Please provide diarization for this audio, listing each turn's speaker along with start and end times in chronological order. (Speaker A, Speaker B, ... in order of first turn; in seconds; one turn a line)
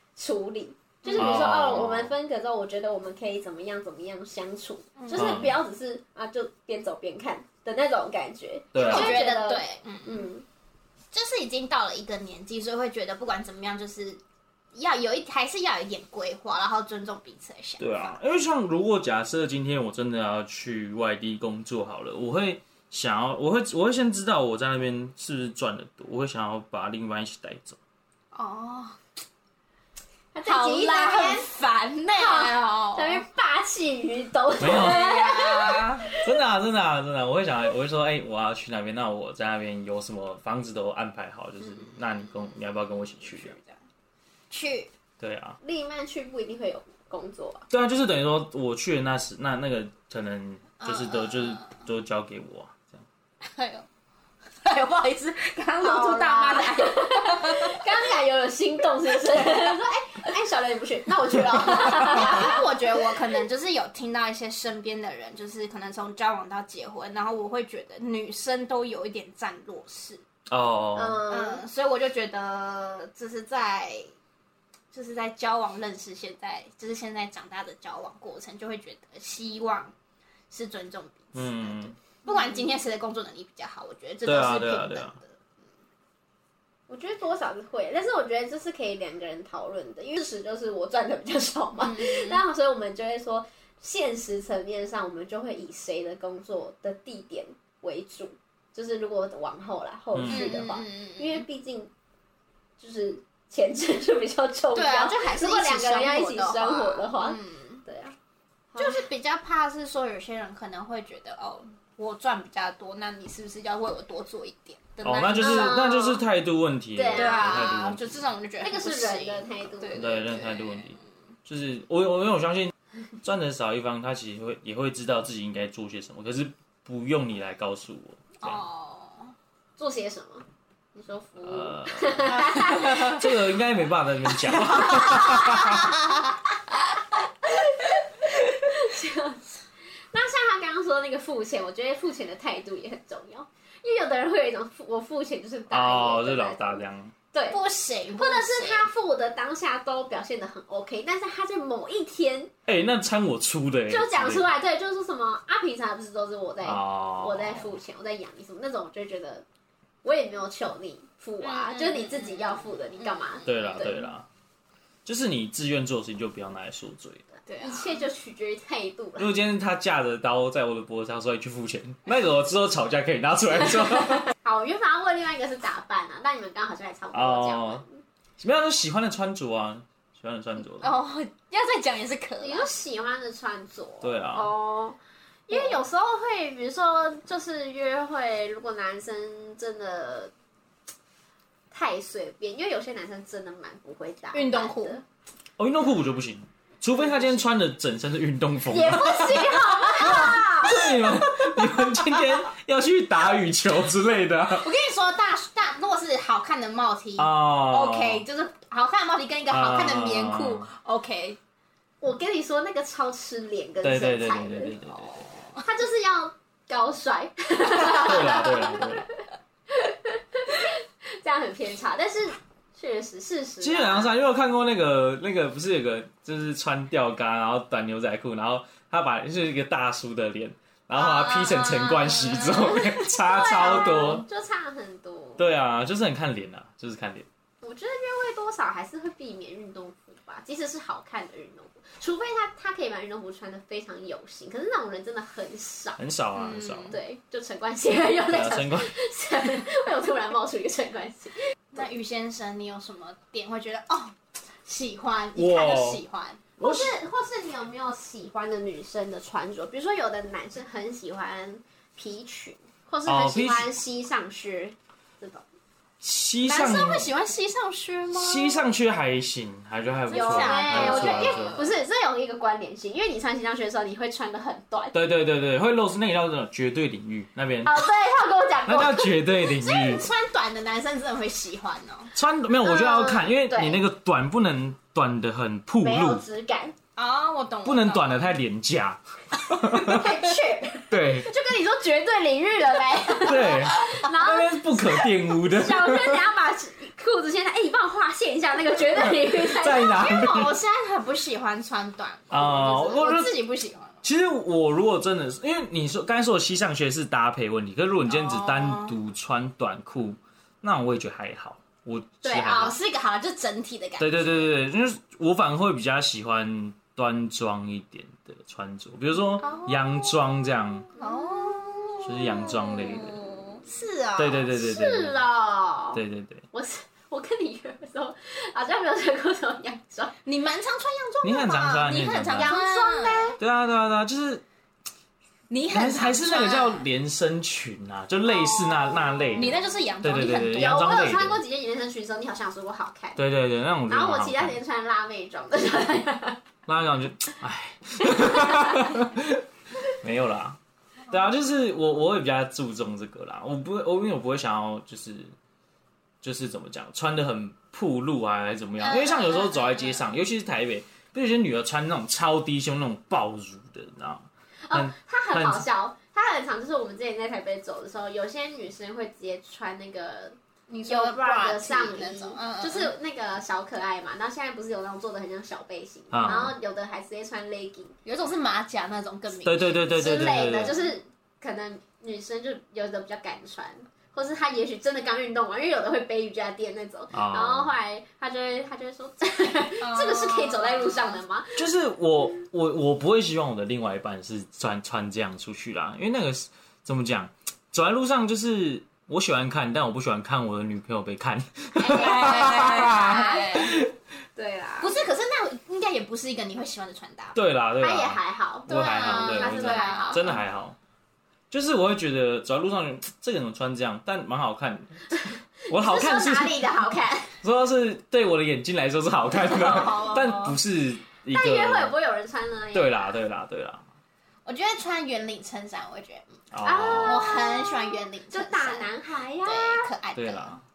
Speaker A: 0.2-10.4
Speaker B: 1.1-1.5
Speaker C: 1.1-2.1
Speaker B: 5.0-5.4
Speaker C: 5.2-5.5
Speaker C: 8.7-9.2
Speaker B: 8.8-10.3
Speaker B: 11.1-14.2
Speaker B: 14.7-18.2
Speaker C: 17.8-27.8
Speaker B: 28.3-29.0
Speaker A: 30.3-31.5
Speaker B: 30.4-33.2
Speaker A: 32.1-36.2
Speaker C: 34.6-35.1
Speaker B: 34.6-36.1
Speaker C: 36.2-43.6
Speaker B: 43.2-43.8
Speaker B: 44.5-44.9
Speaker C: 45.2-45.6
Speaker A: 45.6-47.7
Speaker C: 47.7-53.0
Speaker B: 50.8-51.8
Speaker B: 53.4-53.9
Speaker B: 54.6-57.9
Speaker A: 55.8-62.7
Speaker B: 61.6-70.2
Speaker C: 70.5-71.2
Speaker A: 71.0-71.6
Speaker B: 71.3-74.1
Speaker B: 74.9-79.9
Speaker B: 80.5-85.3
Speaker C: 81.3-81.9
Speaker A: 82.3-82.7
Speaker C: 84.2-85.2
Speaker A: 86.9-101.9
Speaker B: 91.8-92.4
Speaker C: 100.1-100.6
Speaker B: 100.3-101.5
Speaker A: 102.8-108.2
Speaker B: 104.8-107.8
Speaker A: 108.7-109.0
Speaker B: 108.8-115.9
Speaker C: 115.0-118.2
Speaker A: 115.3-116.2
Speaker A: 117.0-117.7
Speaker B: 117.1-121.0
Speaker A: 118.6-120.1
Speaker C: 120.0-128.6
Speaker B: 128.4-129.3
Speaker A: 129.8-133.2
Speaker C: 131.4-135.9
Speaker B: 132.4-133.2
Speaker B: 134.8-136.1
Speaker A: 137.2-139.5
Speaker A: 140.1-146.8
Speaker C: 145.7-147.1
Speaker A: 147.3-147.6
Speaker B: 147.5-148.9
Speaker A: 148.2-152.5
Speaker C: 152.7-154.5
Speaker A: 153.9-159.4
Speaker C: 156.6-157.6
Speaker A: 160.0-164.1
Speaker B: 161.4-164.0
Speaker C: 163.5-164.3
Speaker C: 165.1-167.3
Speaker B: 167.5-168.1
Speaker A: 167.6-169.4
Speaker C: 169.2-174.3
Speaker A: 174.4-178.0
Speaker C: 177.1-177.8
Speaker C: 178.4-180.9
Speaker B: 180.8-182.7
Speaker A: 182.4-185.0
Speaker C: 184.0-184.5
Speaker A: 185.5-190.3
Speaker A: 191.7-195.0
Speaker B: 194.3-195.0
Speaker C: 195.6-204.7
Speaker A: 198.7-201.1
Speaker B: 204.6-211.4
Speaker C: 207.2-208.3
Speaker C: 209.5-210.7
Speaker A: 212.0-214.8
Speaker C: 213.8-215.3
Speaker B: 215.0-215.6
Speaker A: 215.6-224.1
Speaker C: 217.8-219.1
Speaker C: 223.6-234.2
Speaker B: 231.2-232.6
Speaker A: 232.7-235.4
Speaker C: 235.4-237.3
Speaker A: 237.6-246.0
Speaker C: 246.0-247.0
Speaker B: 246.4-247.0
Speaker A: 246.9-251.8
Speaker C: 248.3-248.9
Speaker B: 251.7-256.4
Speaker C: 255.4-256.0
Speaker A: 256.6-265.4
Speaker C: 256.6-256.9
Speaker C: 263.1-263.7
Speaker C: 266.0-267.1
Speaker B: 266.4-268.6
Speaker C: 268.1-271.7
Speaker B: 270.1-271.7
Speaker A: 270.1-275.0
Speaker C: 274.9-277.8
Speaker A: 277.6-279.4
Speaker C: 278.7-280.1
Speaker B: 279.5-282.1
Speaker C: 282.1-286.2
Speaker A: 282.6-283.8
Speaker A: 285.8-286.8
Speaker B: 287.0-288.3
Speaker C: 287.6-290.1
Speaker A: 289.7-300.5
Speaker B: 289.8-290.6
Speaker C: 290.9-291.3
Speaker C: 293.2-296.2
Speaker C: 299.3-300.6
Speaker B: 300.0-304.0
Speaker C: 302.3-303.4
Speaker C: 304.0-312.8
Speaker B: 308.1-308.9
Speaker A: 312.3-312.7
Speaker B: 312.3-314.5
Speaker C: 314.0-320.9
Speaker B: 319.4-320.1
Speaker B: 321.0-324.5
Speaker C: 322.0-323.2
Speaker C: 324.2-325.1
Speaker A: 324.5-330.1
Speaker C: 325.9-326.4
Speaker B: 330.2-333.4
Speaker C: 331.2-332.6
Speaker A: 332.4-333.4
Speaker C: 333.4-334.4
Speaker B: 335.5-336.9
Speaker C: 335.7-341.4
Speaker A: 338.4-339.5
Speaker B: 338.8-341.2
Speaker A: 340.6-343.2
Speaker C: 343.2-344.6
Speaker A: 343.9-346.4
Speaker C: 346.7-350.6
Speaker A: 348.1-348.8
Speaker C: 351.1-355.3
Speaker C: 356.2-365.6
Speaker B: 358.8-360.1
Speaker A: 364.7-377.9
Speaker B: 370.7-372.9
Speaker C: 376.1-376.5
Speaker B: 378.1-379.9
Speaker C: 379.4-380.8
Speaker A: 379.9-391.6
Speaker C: 387.1-387.7
Speaker B: 389.8-391.2
Speaker C: 391.6-403.9
Speaker B: 401.8-403.8
Speaker A: 401.9-403.7
Speaker A: 404.4-404.9
Speaker B: 404.8-407.4
Speaker C: 407.4-410.8
Speaker A: 407.8-410.4
Speaker B: 408.7-410.4
Speaker C: 411.5-415.0
Speaker A: 415.1-417.4
Speaker C: 415.7-416.6
Speaker C: 417.4-421.9
Speaker B: 419.4-420.6
Speaker A: 421.3-423.1
Speaker C: 422.7-423.8
Speaker B: 424.5-426.3
Speaker C: 426.5-427.3
Speaker A: 426.6-429.9
Speaker B: 427.0-428.9
Speaker B: 429.4-430.6
Speaker C: 430.1-430.6